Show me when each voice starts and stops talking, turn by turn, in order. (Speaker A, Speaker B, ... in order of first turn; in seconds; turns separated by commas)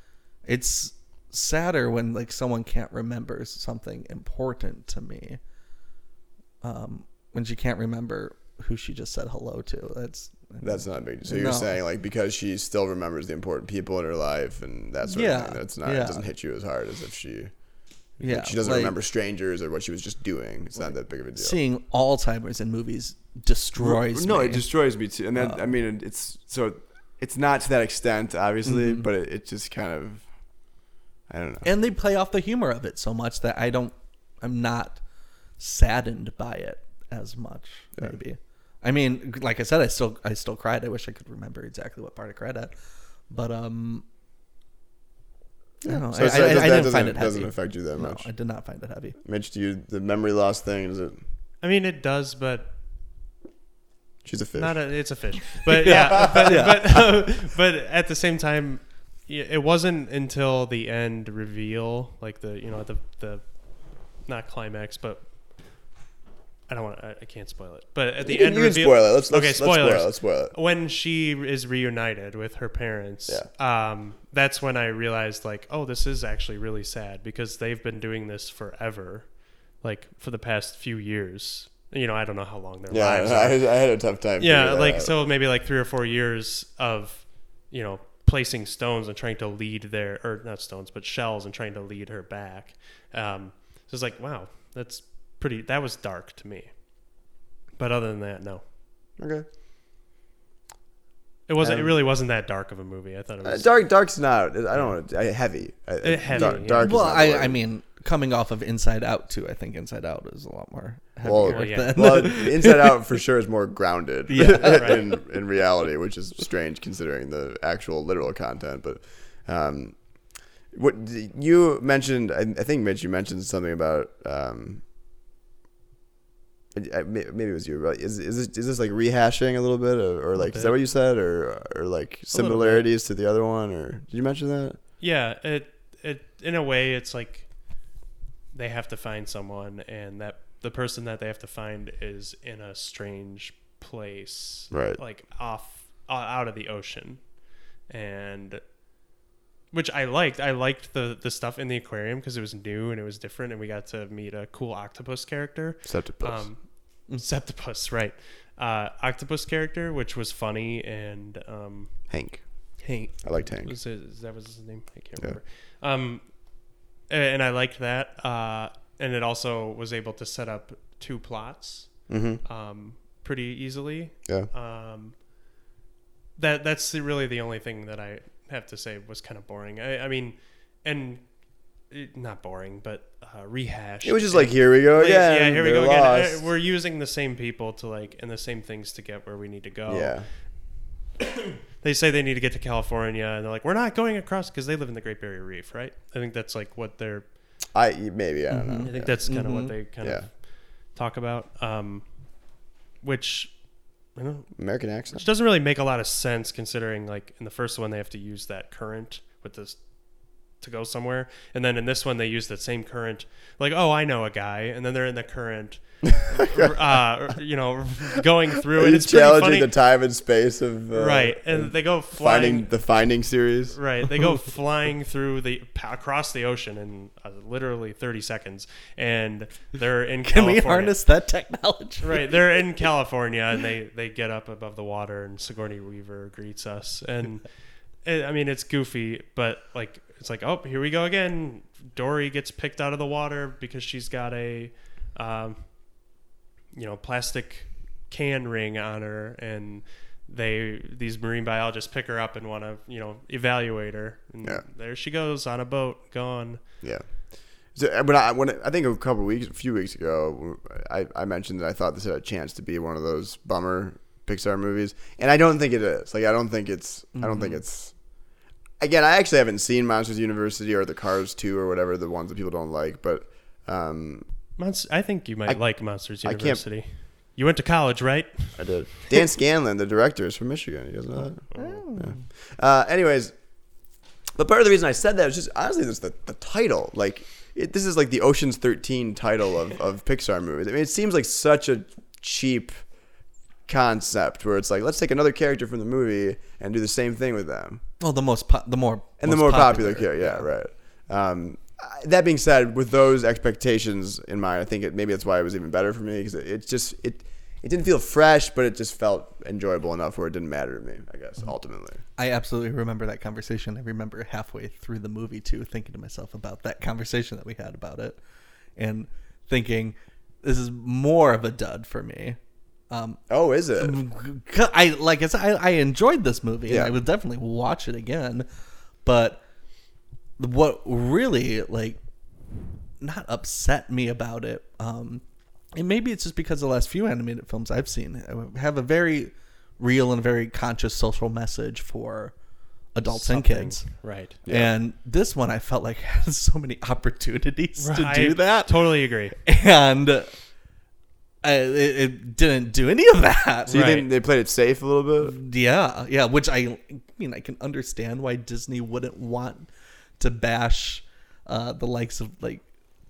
Speaker A: 0.5-5.4, Speaker A: 6.6-11.8, Speaker B: 10.6-17.5, Speaker A: 15.1-16.3, Speaker B: 18.2-21.6, Speaker A: 18.2-18.9, Speaker A: 21.4-24.7, Speaker B: 23.8-30.2, Speaker A: 25.4-25.6, Speaker A: 28.6-29.1, Speaker B: 31.3-31.7, Speaker A: 31.6-35.0, Speaker A: 35.6-42.7, Speaker A: 43.3-44.0, Speaker B: 45.8-48.3, Speaker A: 45.9-49.1, Speaker B: 49.2-51.2, Speaker C: 51.6-52.7, Speaker B: 54.2-54.8, Speaker C: 54.5-63.4, Speaker A: 55.7-57.0, Speaker C: 64.2-65.2, Speaker C: 66.7-83.7, Speaker B: 68.2-70.5, Speaker B: 82.9-85.1, Speaker C: 84.4-96.7, Speaker C: 97.8-98.6, Speaker B: 99.2-99.5, Speaker C: 101.5-103.7, Speaker B: 101.6-101.9, Speaker B: 103.4-107.6, Speaker C: 106.0-106.9, Speaker A: 106.4-113.0, Speaker B: 111.2-120.0, Speaker C: 111.4-112.3, Speaker A: 114.3-115.1, Speaker C: 114.7-115.0, Speaker B: 120.7-124.8, Speaker B: 126.7-134.8, Speaker C: 130.4-130.7, Speaker A: 132.3-132.8, Speaker C: 135.0-137.5, Speaker C: 138.5-147.3, Speaker B: 144.7-145.0, Speaker C: 147.9-148.6, Speaker C: 149.7-156.6, Speaker B: 155.8-156.5, Speaker C: 157.1-161.9, Speaker B: 162.1-162.4, Speaker C: 162.8-166.3, Speaker B: 163.2-163.8, Speaker C: 167.1-175.2, Speaker B: 172.1-172.4, Speaker C: 176.3-181.3, Speaker C: 181.9-190.2, Speaker B: 184.0-186.5, Speaker B: 189.8-190.3, Speaker C: 191.2-197.3, Speaker B: 197.7-199.3, Speaker A: 198.5-199.7, Speaker C: 198.8-202.1, Speaker B: 200.0-200.3, Speaker C: 203.0-203.6, Speaker C: 204.1-209.8, Speaker B: 204.6-205.2, Speaker C: 210.5-219.7, Speaker B: 216.2-216.8, Speaker B: 218.7-223.8, Speaker C: 220.9-222.7, Speaker C: 223.7-230.9, Speaker A: 230.2-232.3, Speaker C: 232.0-245.7, Speaker C: 246.7-256.6, Speaker B: 256.8-257.1, Speaker B: 257.7-267.9, Speaker A: 267.1-267.5, Speaker B: 268.8-274.3, Speaker C: 274.6-278.6, Speaker B: 275.4-276.6, Speaker B: 278.5-283.3, Speaker A: 281.5-282.2, Speaker B: 284.4-292.8, Speaker B: 293.7-297.8, Speaker A: 298.0-300.4, Speaker B: 299.2-312.0, Speaker A: 312.2-318.2, Speaker A: 318.8-322.4, Speaker A: 322.9-323.2, Speaker B: 323.3-324.0, Speaker A: 323.8-328.5, Speaker B: 326.7-326.9, Speaker A: 329.0-329.4, Speaker A: 330.4-332.0, Speaker A: 333.0-342.3, Speaker A: 342.9-348.9, Speaker C: 343.1-344.4, Speaker B: 344.4-344.7, Speaker C: 347.8-349.4, Speaker A: 349.4-350.3, Speaker A: 351.4-353.8, Speaker B: 353.7-355.4, Speaker C: 353.7-354.1, Speaker A: 355.2-359.7, Speaker A: 360.2-362.6